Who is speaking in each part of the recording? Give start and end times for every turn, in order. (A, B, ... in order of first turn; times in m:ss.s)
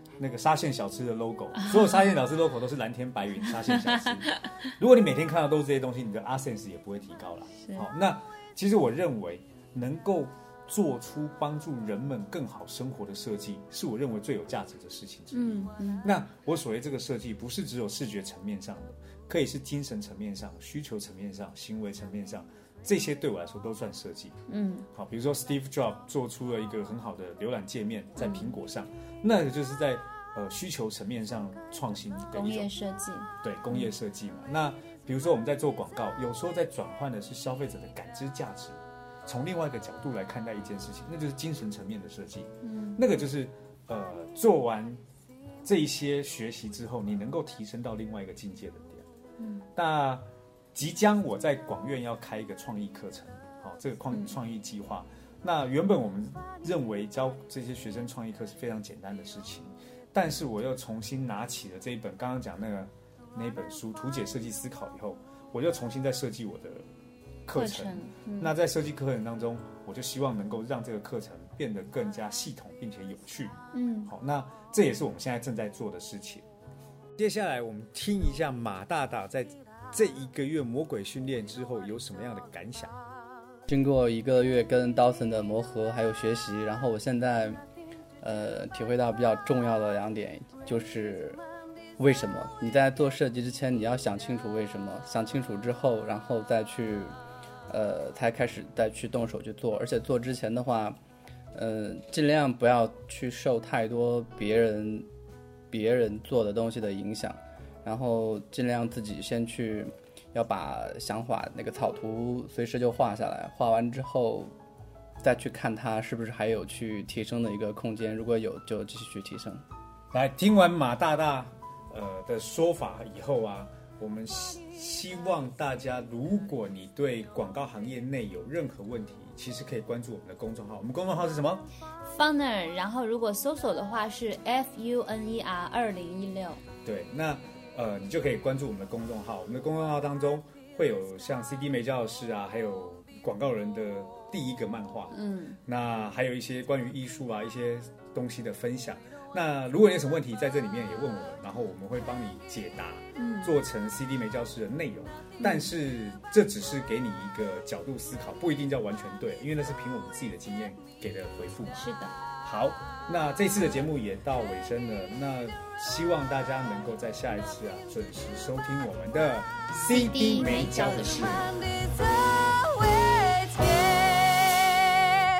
0:00.2-0:24.4 A
0:03.6-0:04.5 B
0:15.3-0:16.1 B
0:24.5-0:24.9 B
0:24.9-0:32.7 A
0:28.2-0:28.6 B
0:32.3-0:33.9 B
0:33.4-0:45.0 A
0:42.6-0:43.0 B
0:45.6-0:49.0 A
0:49.4-0:49.6 B
0:49.7-1:06.8 A
1:07.4-1:16.4 A
1:07.5-1:08.5 B
1:13.7-1:14.1 B
1:17.2-1:22.9 A
1:23.7-1:27.6 C
1:28.2-1:31.4 C
1:32.0-1:37.1 C
1:37.7-1:41.0 C
1:41.5-1:45.1 C
1:45.7-1:54.5 C
1:55.2-1:59.6 C
2:00.1-2:11.6 A
2:12.0-2:16.6 B
2:16.8-2:41.8 A
2:25.1-2:25.6 B
2:33.1-2:33.5 B
2:35.4-2:35.7 B
2:41.8-2:42.1 B
2:42.4-2:51.6 A
2:49.9-2:51.7 B